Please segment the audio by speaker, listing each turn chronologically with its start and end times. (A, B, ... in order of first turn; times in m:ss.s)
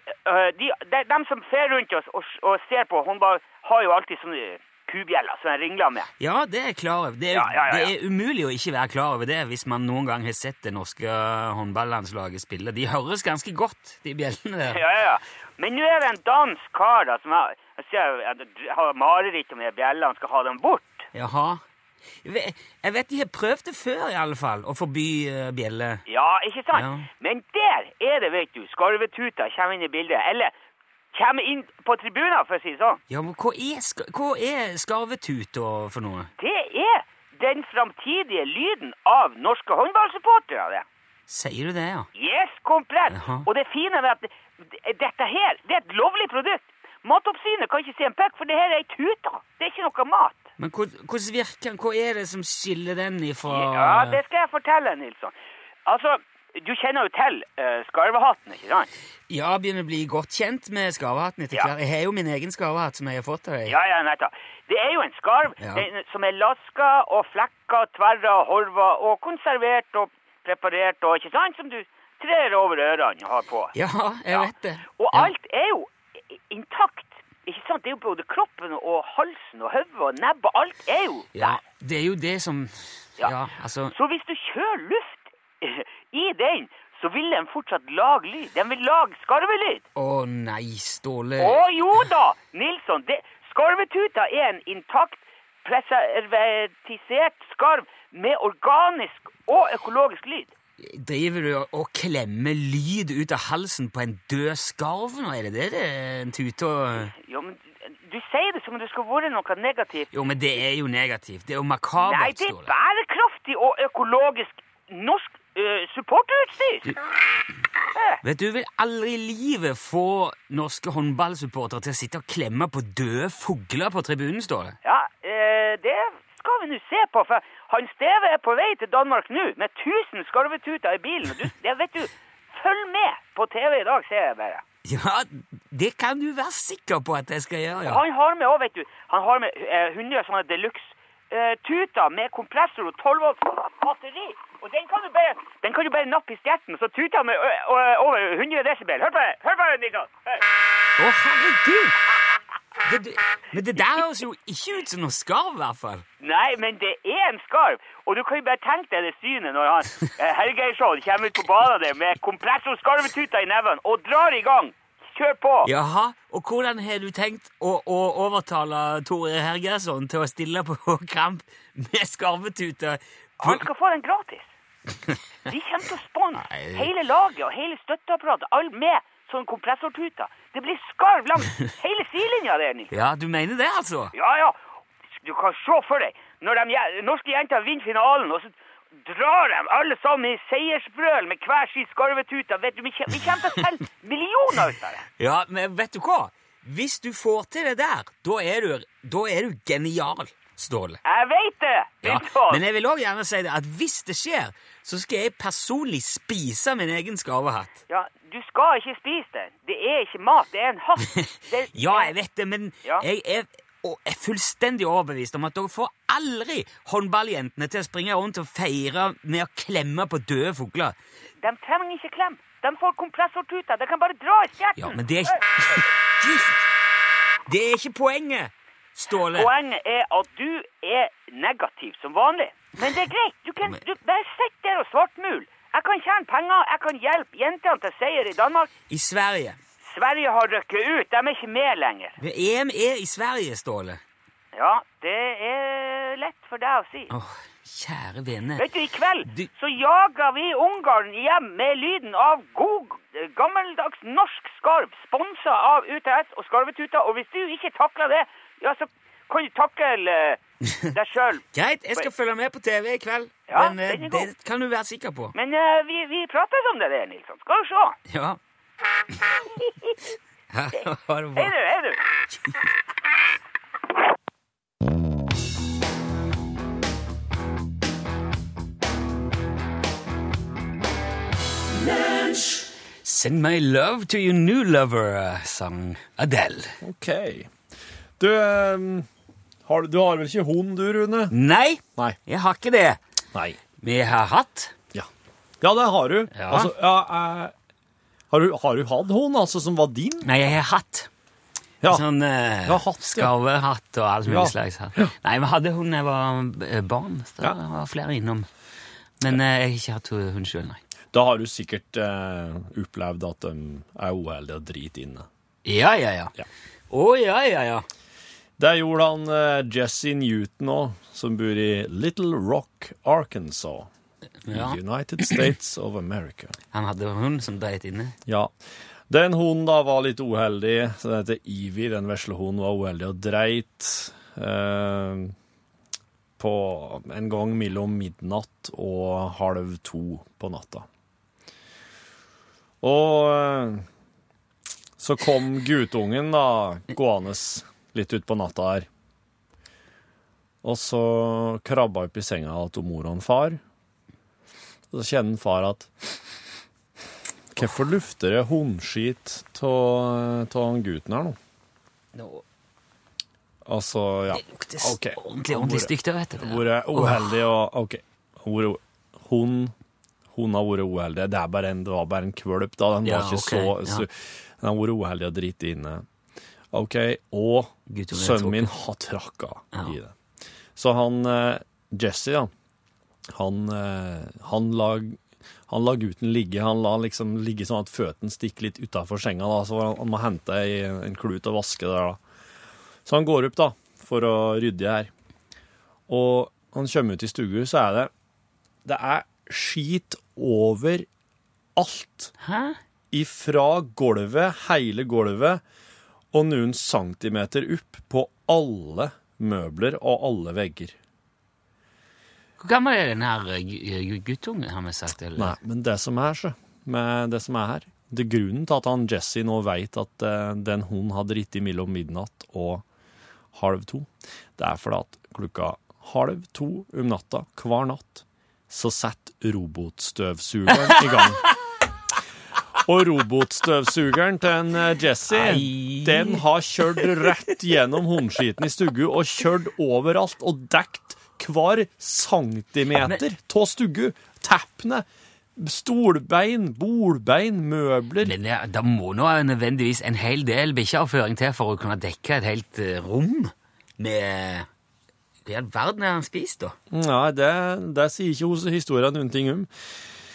0:00.2-0:06.1 A
0:06.2-0:14.8 B
0:07.3-0:07.9 A
0:14.7-0:21.0 A
0:21.1-0:21.6 B
0:22.2-0:26.0 B
0:26.1-0:30.5 A
0:26.7-0:27.1 B
0:31.1-0:33.0 A
0:33.1-0:36.3 B
0:36.4-0:40.8 A
0:41.3-0:42.1 B
0:42.2-0:50.4 A
0:43.1-0:43.5 B
0:50.6-0:54.2 B
0:53.5-0:55.3 A
0:55.8-0:58.9 A
0:59.3-1:03.7 B
1:03.7-1:13.7 A
1:05.6-1:05.8 B
1:13.7-1:15.3 B
1:14.3-1:15.9 A
1:16.5-1:21.6 A
1:21.3-1:23.9 B
1:23.9-1:29.8 A
1:30.0-1:31.6 B
1:31.4-1:40.5 A
1:40.8-1:47.1 B
1:47.1-1:50.1 A
1:50.1-1:52.7 B
1:52.0-1:57.0 A
1:57.9-1:58.2 A
1:58.2-2:04.8 B
2:04.8-2:14.6 A
2:14.8-2:18.0 B
2:17.8-2:30.4 A
2:31.0-2:32.0 B
2:32.8-2:36.0 B
2:36.2-2:45.7 A
2:45.6-2:53.7 B
2:53.4-2:54.4 A
2:55.4-3:02.9 A
2:56.4-2:56.9 B
3:02.9-3:04.1 B
3:04.1-3:04.6 A
3:05.2-3:15.0 A
3:15.2-3:21.0 B
3:21.0-3:22.6 A
3:22.0-3:27.7 B
3:27.9-3:32.1 A
3:31.1-3:41.0 B
3:41.4-3:45.4 A
3:44.8-3:46.6 B
3:47.4-3:49.5 B
3:49.3-3:58.7 A
3:58.9-3:59.6 B
3:59.8-4:02.2 A
4:02.2-4:04.0 B
4:04.5-4:07.1 A
4:07.1-4:08.6 B
4:08.6-4:20.4 A
4:20.9-4:21.4 A
4:21.5-4:25.3 B
4:23.5-4:24.3 A
4:25.3-4:28.0 A
4:28.1-4:28.4 B
4:30.5-4:31.5 B
4:31.4-4:32.0 A
4:43.0-4:46.8 B
4:46.8-4:47.5 C
4:48.2-4:49.1 C
4:49.6-4:51.3 C
4:51.3-4:53.0 B
4:53.8-4:54.7 B
4:55.6-4:57.5 C
4:56.3-4:56.7 B
4:58.3-5:00.4 C
5:00.2-5:01.1 B
5:01.9-5:08.5 B
5:02.6-5:03.3 C
5:04.3-5:05.1 C
5:09.2-5:10.8 B
5:11.1-5:15.3 C
5:15.6-5:16.3 B
5:16.9-5:17.8 B
5:18.6-5:23.9 C
5:24.4-5:24.8 B
5:24.5-5:26.6 C
5:26.7-5:28.2 B
5:28.2-5:28.5 C
5:29.1-5:35.3 C
5:36.4-5:40.9 C
5:42.8-5:43.8 C
5:45.0-5:48.9 C
5:50.6-5:53.6 C
5:54.9-5:55.9 C
5:57.5-6:01.4 C
6:02.1-6:02.4 B
6:03.6-6:09.7 C
6:04.3-6:07.4 B
6:10.3-6:16.0 C
6:13.0-6:14.0 B
6:16.7-6:20.1 C
6:17.9-6:18.7 B
6:20.8-6:22.5 C
6:23.3-6:32.2 C
6:33.0-6:35.1 C
6:36.1-6:38.1 C
6:38.8-6:41.1 C
6:41.8-6:42.3 C
6:42.4-6:42.8 B
6:43.1-6:45.6 C
6:46.3-6:50.9 C
6:52.6-6:55.6 B
6:55.4-7:02.8 C
7:03.5-7:11.4 C
7:12.8-7:28.3 C
7:15.3-7:16.4 B
7:28.2-7:34.7 B
7:35.4-7:36.8 B
7:36.9-7:39.7 C